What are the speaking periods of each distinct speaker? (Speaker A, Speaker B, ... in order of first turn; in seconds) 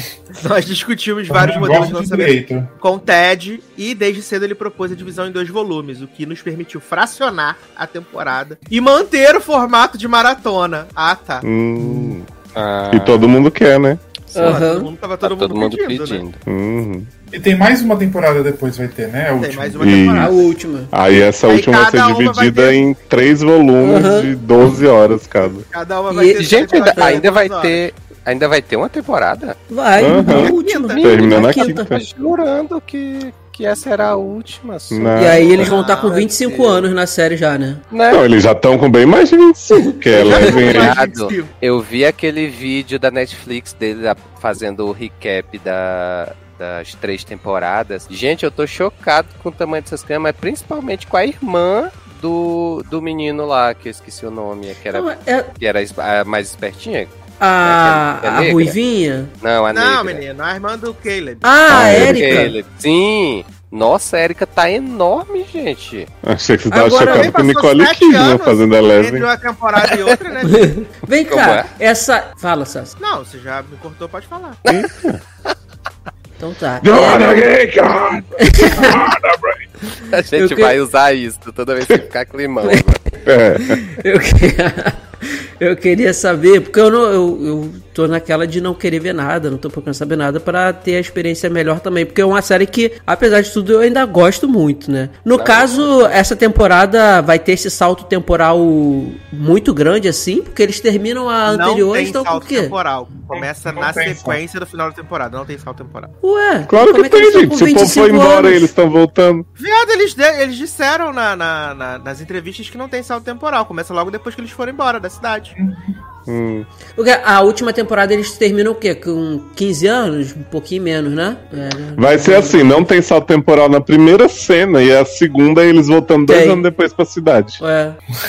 Speaker A: 0.3-11.4, 14.3-16.2, 19.4-20.6, 21.4-22.8, 25.7-27.8, 30.3-31.6, 35.6-36.2, 40.1-41.5, 59.7-61.5, 66.9-70.7, 73.0-74.6, 101.4-106.1, 109.6-115.5
Speaker B: 1.3-2.7, 11.8-12.1, 17.3-19.8, 103.3-104.4, 115.5-115.9
Speaker C: 11.4-12.3, 12.9-14.1, 16.4-17.1, 19.8-20.4, 20.9-25.6, 30.0-32.0, 34.9-35.6, 38.1-41.0, 61.7-62.4, 66.2-69.3, 74.7-75.2, 76.8-79.7, 83.2-83.8, 106.7-109.5, 116.3-116.7, 122.0-127.6
Speaker D: 12.5-13.3, 14.4-14.6, 15.2-16.4, 26.4-29.6, 30.9-36.8, 37.9-38.2, 40.4-58.7, 59.4-60.2, 61.8-66.1, 69.8-70.0, 71.3-71.7, 80.1-83.0, 95.3-96.1
Speaker E: 14.3-14.9, 20.2-20.9, 23.8-24.3, 26.1-27.2, 29.7-31.9, 35.1-37.8, 54.9-55.5, 57.4-59.3, 61.4-62.5, 66.7-67.3, 70.4-72.9, 76.4-77.5, 78.4-79.0, 80.3-80.8, 83.7-102.7, 106.2-108.7, 117.0-122.8, 126.2-126.6, 127.6-128.0